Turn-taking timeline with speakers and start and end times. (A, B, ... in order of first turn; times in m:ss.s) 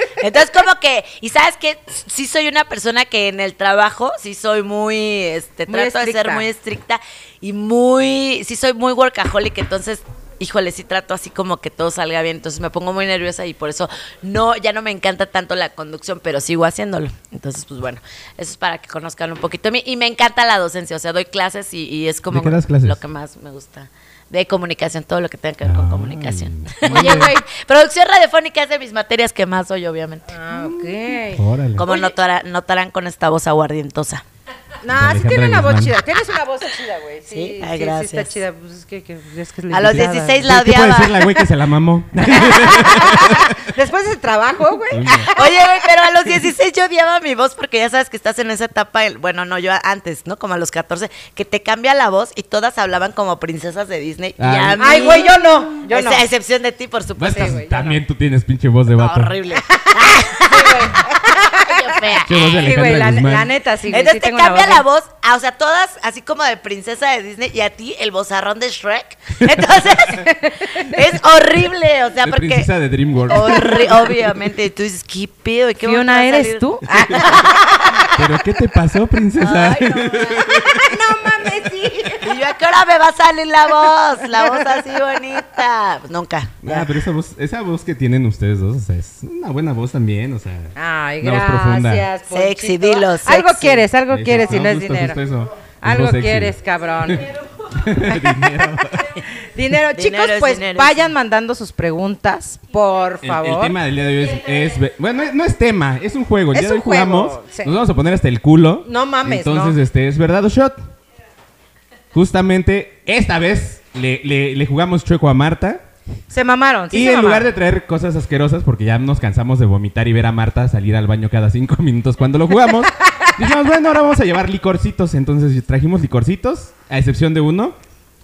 0:00.2-0:30.3 A
0:05.7-0:06.4 B
0:22.3-0:23.0 C
0:25.6-0:27.3 C
0:26.8-0:27.4 B
0:30.3-0:32.1 B
0:31.3-0:31.9 C
0:31.8-0:34.2 A
0:34.8-0:40.4 B
0:34.9-0:36.0 C
0:37.3-0:38.4 A
0:39.7-0:41.4 A
0:39.9-0:43.6 C
0:42.3-0:45.9 B
0:44.9-0:45.3 C
0:45.4-0:57.8 A
0:54.4-0:55.0 C
0:54.8-0:56.2 B
0:57.2-0:59.4 C
0:57.2-0:57.9 B
0:59.0-1:02.6 A
0:59.6-1:04.8 B
1:02.2-1:03.5 C
1:03.9-1:12.7 A
1:10.2-1:11.2 B
1:12.2-1:14.0 C
1:13.3-1:17.7 A
1:13.3-1:14.1 B
1:15.8-1:18.1 B
1:16.9-1:17.2 C
1:18.1-1:20.9 C
1:19.4-1:20.5 A
1:20.4-1:22.4 B
1:22.2-1:26.9 A
1:24.4-1:24.8 B
1:26.6-1:32.1 C
1:30.8-1:35.2 B
1:32.3-1:33.9 A
1:34.1-1:36.6 C
1:35.8-1:37.3 B
1:37.1-1:39.1 C
1:38.0-1:38.7 B
1:39.4-1:43.8 B
1:39.9-1:41.0 A
1:43.2-1:50.8 C
1:46.5-1:47.8 B
1:48.8-1:49.8 B
1:52.1-1:55.8 C
1:56.3-1:57.5 B
1:56.9-2:07.8 C